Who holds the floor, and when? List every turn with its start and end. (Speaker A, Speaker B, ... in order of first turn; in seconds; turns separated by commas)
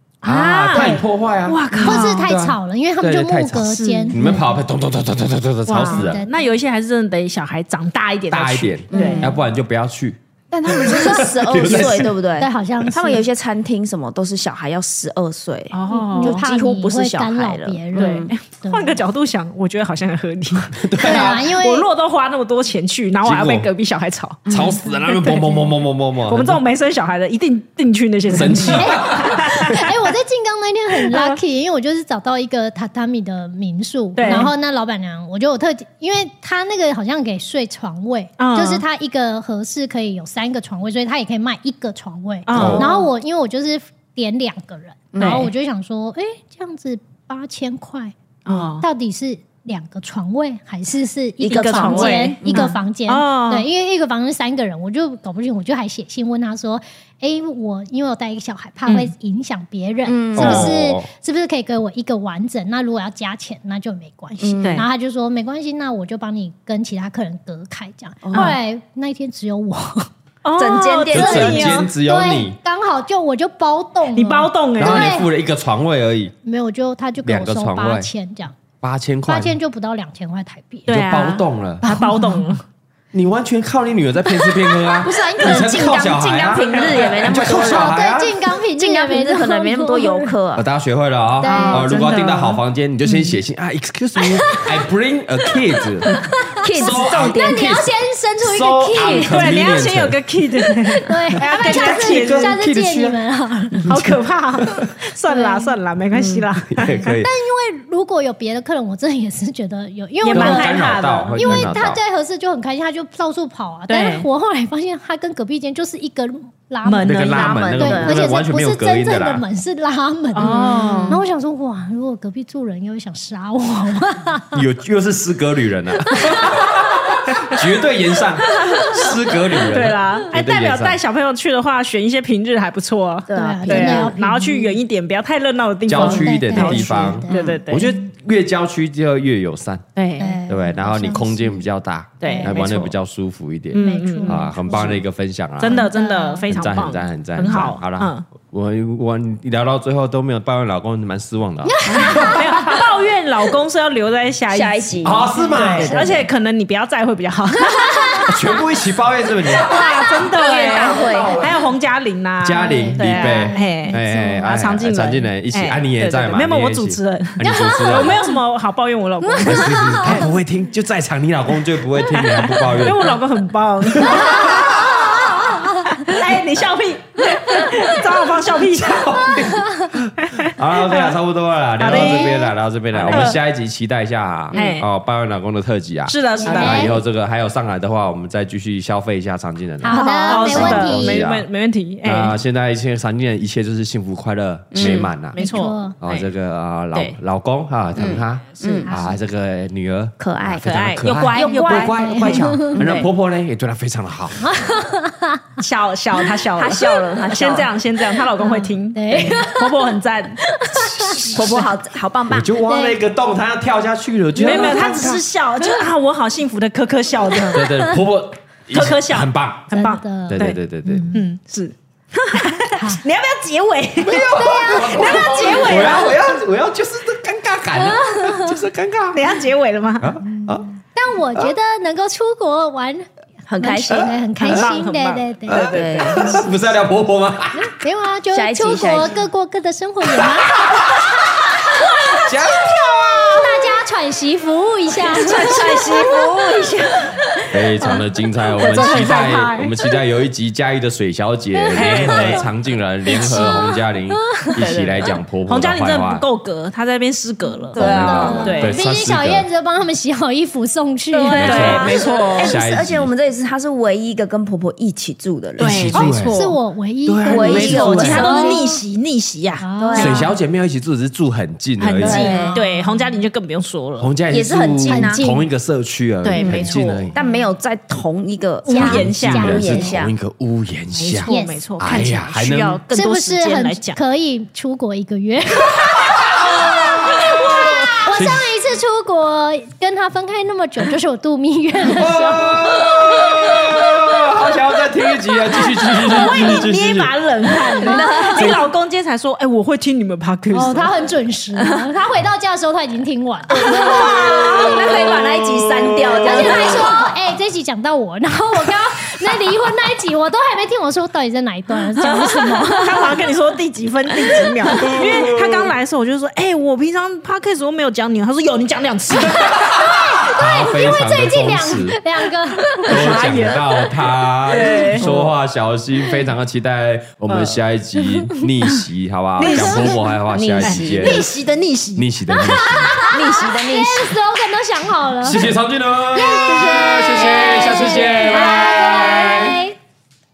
Speaker A: 0.2-2.4, Speaker B: 0.2-6.2, Speaker C: 1.8-4.4, Speaker A: 3.6-4.5, Speaker A: 5.7-9.3, Speaker C: 5.8-6.4, Speaker B: 8.3-12.1, Speaker D: 8.9-9.3, Speaker C: 8.9-9.3, Speaker D: 10.5-18.3, Speaker C: 11.0-13.2, Speaker A: 15.7-16.4, Speaker C: 15.9-19.0, Speaker A: 17.9-25.5, Speaker B: 20.7-21.4, Speaker C: 21.0-21.9, Speaker B: 23.2-23.7, Speaker D: 24.4-24.8, Speaker B: 24.5-26.6, Speaker C: 24.5-25.6, Speaker A: 26.3-29.9, Speaker B: 28.3-29.8, Speaker C: 28.6-70.1, Speaker A: 31.0-31.4, Speaker A: 34.1-34.5, Speaker A: 38.4-38.8, Speaker A: 42.5-43.1, Speaker B: 42.5-42.9, Speaker D: 42.5-42.9, Speaker D: 45.1-45.5, Speaker A: 45.2-45.5, Speaker A: 48.5-48.9, Speaker D: 51.4-52.7, Speaker A: 51.5-53.7, Speaker A: 58.9-59.1, Speaker D: 60.1-60.8, Speaker B: 60.4-61.1, Speaker D: 64.4-64.8, Speaker A: 64.6-64.9, Speaker D: 68.2-68.5, Speaker A: 68.3-68.6, Speaker A: 70.4-71.9, Speaker D: 70.6-71.8, Speaker B: 71.1-72.6, Speaker C: 71.2-75.3, Speaker A: 74.1-75.2, Speaker B: 74.8-76.3, Speaker C: 76.4-78.6, Speaker B: 77.2-78.1, Speaker B: 78.8-79.6, Speaker C: 79.3-80.9, Speaker A: 80.9-82.6, Speaker B: 80.9-82.4, Speaker B: 83.1-88.4, Speaker D: 85.0-88.0, Speaker C: 85.1-85.9, Speaker A: 86.7-87.1, Speaker C: 87.4-90.3, Speaker D: 88.8-90.7, Speaker B: 90.5-96.2, Speaker C: 91.4-91.9, Speaker A: 91.4-92.6, Speaker C: 94.2-94.8, Speaker C: 96.1-99.7, Speaker D: 96.5-97.8, Speaker B: 96.7-100.2, Speaker A: 99.0-102.6, Speaker C: 101.0-103.9, Speaker B: 101.5-103.2, Speaker B: 103.8-104.9, Speaker A: 103.8-107.0, Speaker C: 105.3-105.8, Speaker D: 106.1-106.5, Speaker B: 106.7-107.3, Speaker C: 107.0-124.6, Speaker A: 110.2-111.7, Speaker B: 110.3-112.0, Speaker A: 113.9-114.3, Speaker A: 116.8-117.5, Speaker B: 117.0-119.4, Speaker D: 117.3-118.2, Speaker A: 120.3-121.2, Speaker D: 120.4-121.2, Speaker B: 124.5-131.0, Speaker C: 126.1-126.7, Speaker A: 128.6-137.9, Speaker D: 133.3-134.2, Speaker C: 133.3-134.8, Speaker B: 135.9-139.8, Speaker C: 135.9-137.5, Speaker D: 137.3-137.6, Speaker A: 139.9-140.4, Speaker C: 140.2-141.6, Speaker B: 140.5-145.9, Speaker A: 142.2-142.9, Speaker C: 142.2-142.6, Speaker A: 143.7-144.5, Speaker C: 143.8-145.0, Speaker A: 145.6-148.3, Speaker C: 145.6-146.8, Speaker B: 146.5-152.4, Speaker C: 151.6-152.8, Speaker A: 151.9-158.3, Speaker D: 154.5-156.2, Speaker B: 155.0-156.3, Speaker C: 155.3-155.8, Speaker C: 157.6-158.3, Speaker B: 158.3-159.8, Speaker A: 159.7-170.2, Speaker D: 160.2-161.5, Speaker B: 162.4-168.2, Speaker C: 162.6-163.9, Speaker C: 167.4-168.2, Speaker C: 169.2-170.3, Speaker B: 169.4-173.2, Speaker A: 172.7-174.7, Speaker B: 173.9-175.4, Speaker C: 174.0-176.1, Speaker A: 175.9-179.3, Speaker C: 177.6-177.9, Speaker B: 178.7-191.5, Speaker C: 179.5-179.9, Speaker A: 180.2-180.5, Speaker A: 181.8-183.4, Speaker C: 181.9-182.5, Speaker D: 184.5-184.8, Speaker A: 184.5-184.8, Speaker A: 186.1-186.9, Speaker C: 186.4-187.0, Speaker C: 189.8-191.2, Speaker A: 189.9-192.4, Speaker B: 192.0-195.4, Speaker D: 194.7-195.1, Speaker A: 194.8-196.3, Speaker C: 195.3-196.0, Speaker B: 196.0-204.5, Speaker A: 196.9-197.2, Speaker D: 198.0-198.9, Speaker C: 198.9-199.1, Speaker D: 200.2-203.0, Speaker A: 200.6-202.9, Speaker C: 202.0-202.8, Speaker C: 204.4-205.6, Speaker A: 205.6-211.7, Speaker D: 206.6-207.7, Speaker C: 208.4-209.9, Speaker C: 210.7-211.3, Speaker B: 211.2-211.7, Speaker D: 211.3-212.6, Speaker B: 212.3-215.2, Speaker C: 212.6-213.0, Speaker A: 214.4-217.7, Speaker C: 214.4-215.1, Speaker B: 217.5-219.7, Speaker C: 217.6-217.9, Speaker A: 218.7-226.1, Speaker C: 219.7-221.2, Speaker B: 220.3-221.1, Speaker C: 222.7-223.0, Speaker B: 224.0-229.4, Speaker C: 224.3-226.2, Speaker C: 227.8-228.6, Speaker A: 229.1-230.2, Speaker B: 230.0-230.7, Speaker C: 230.2-233.1, Speaker D: 233.5-234.2, Speaker C: 233.6-235.8, Speaker A: 234.4-236.5, Speaker B: 235.5-237.7, Speaker D: 235.7-236.5, Speaker C: 237.6-240.8, Speaker D: 238.3-239.2, Speaker B: 240.0-241.5, Speaker B: 242.1-243.7, Speaker C: 243.3-246.2, Speaker A: 245.0-249.8, Speaker D: 245.4-247.1, Speaker B: 247.5-256.2, Speaker C: 248.6-249.5, Speaker C: 251.6-252.5, Speaker A: 251.7-252.5, Speaker C: 253.1-253.8, Speaker A: 254.4-258.8, Speaker C: 257.5-262.0, Speaker D: 257.8-258.6, Speaker B: 257.8-259.5, Speaker A: 261.1-262.6, Speaker B: 261.4-263.1, Speaker D: 261.5-266.0, Speaker B: 265.6-266.4, Speaker A: 265.6-266.6, Speaker C: 266.0-268.8, Speaker B: 267.1-268.3, Speaker D: 267.3-268.6, Speaker A: 267.3-270.2, Speaker C: 269.6-270.3, Speaker D: 269.8-270.2, Speaker B: 269.9-272.3, Speaker A: 271.8-274.1, Speaker D: 272.0-272.6, Speaker C: 272.1-273.2, Speaker B: 274.0-277.1, Speaker D: 274.3-275.3, Speaker C: 274.8-275.5, Speaker D: 276.2-280.1, Speaker A: 276.3-276.8, Speaker C: 277.2-277.4, Speaker C: 278.6-279.9, Speaker A: 278.6-279.8, Speaker B: 279.1-282.8, Speaker A: 280.9-284.0, Speaker C: 281.3-281.6, Speaker C: 282.9-293.6, Speaker B: 285.9-288.5, Speaker A: 287.6-287.9, Speaker B: 291.8-297.2, Speaker A: 295.9-300.9, Speaker C: 297.8-298.5, Speaker D: 297.9-298.5, Speaker B: 298.4-298.6, Speaker C: 300.5-304.7, Speaker D: 303.5-307.0, Speaker B: 304.1-306.8, Speaker C: 306.2-313.1, Speaker A: 312.0-319.9, Speaker B: 314.7-315.7, Speaker C: 319.6-323.3, Speaker B: 320.3-322.0, Speaker A: 322.7-323.9, Speaker B: 322.9-331.3, Speaker A: 324.4-325.1, Speaker D: 325.0-325.3, Speaker A: 327.3-327.6, Speaker D: 329.4-331.4, Speaker A: 329.4-329.9, Speaker C: 329.4-330.1, Speaker A: 330.5-332.1, Speaker B: 331.9-333.0, Speaker C: 332.3-335.5, Speaker D: 333.1-334.2, Speaker B: 335.2-339.6, Speaker C: 336.1-339.7